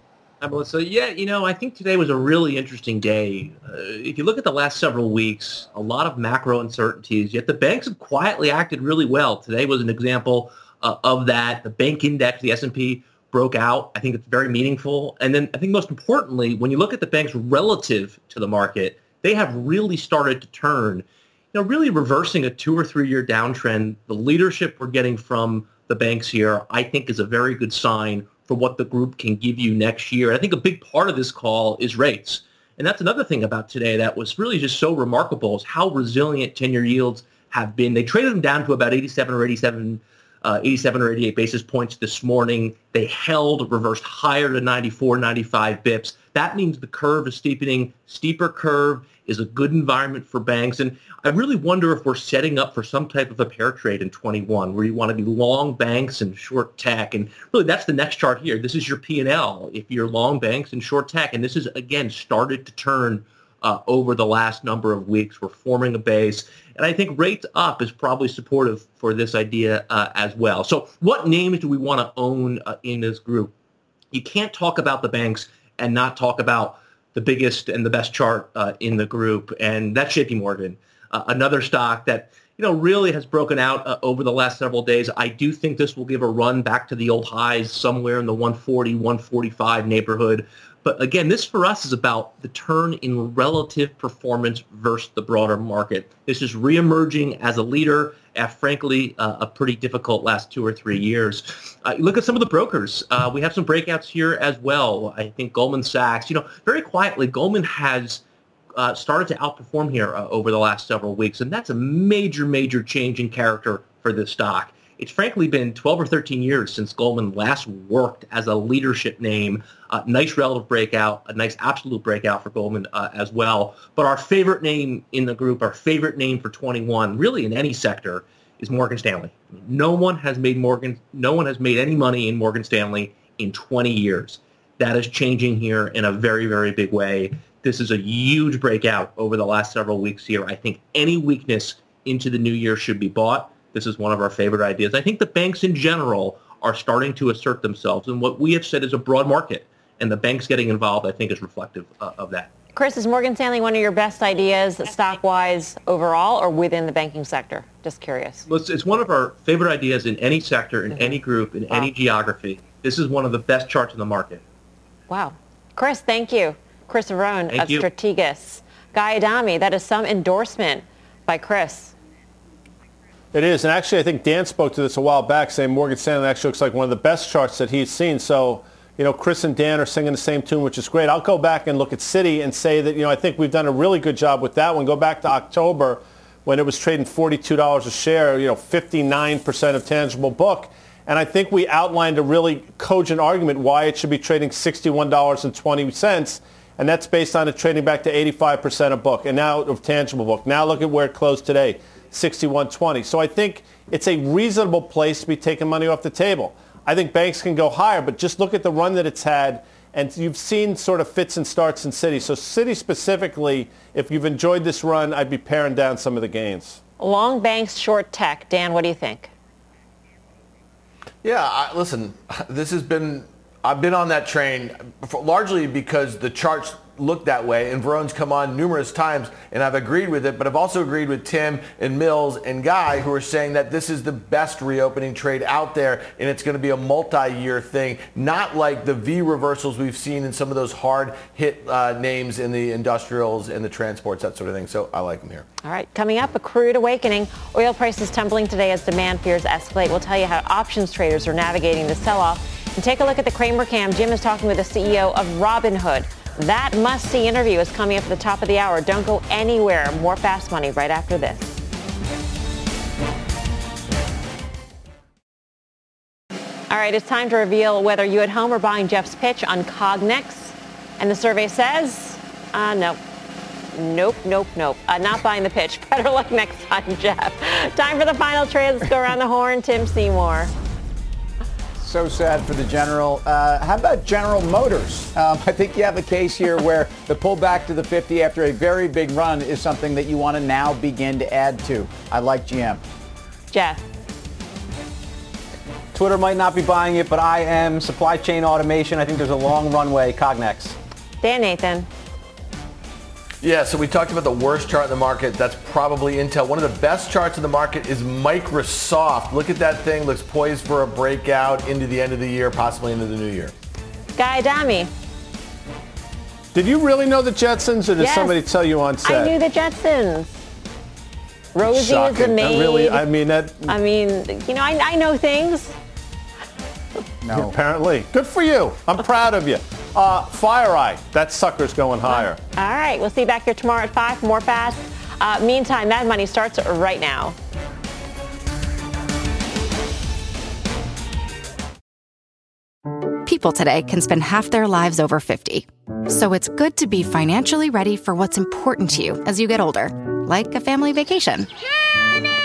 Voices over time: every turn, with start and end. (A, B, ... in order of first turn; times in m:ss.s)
0:00.4-1:13.5 A
1:14.1-1:48.2 A
1:48.8-2:32.5 A
2:32.7-2:38.4 B
2:38.5-2:44.4 A
2:40.9-2:41.2 B
2:45.1-2:51.9 B
2:47.5-2:47.9 A
2:53.3-3:36.8 C
3:37.0-3:39.3 B
3:41.2-4:05.4 D
4:05.6-4:21.6 B
4:26.7-4:33.0 B
4:33.7-4:40.5 B
4:41.8-4:52.8 E
4:53.5-4:53.8 B
4:55.9-5:00.8 F
5:01.2-5:01.9 B
5:03.4-5:13.5 D
5:14.2-5:14.9 B
5:16.5-5:19.3 C
5:18.0-5:18.4 B
5:19.0-5:20.4 B
5:21.6-5:23.0 B
5:21.7-5:23.8 C
5:23.7-5:25.8 B
5:27.2-5:27.5 E
5:27.3-5:32.4 C
5:32.0-5:37.4 B
5:43.2-5:51.5 G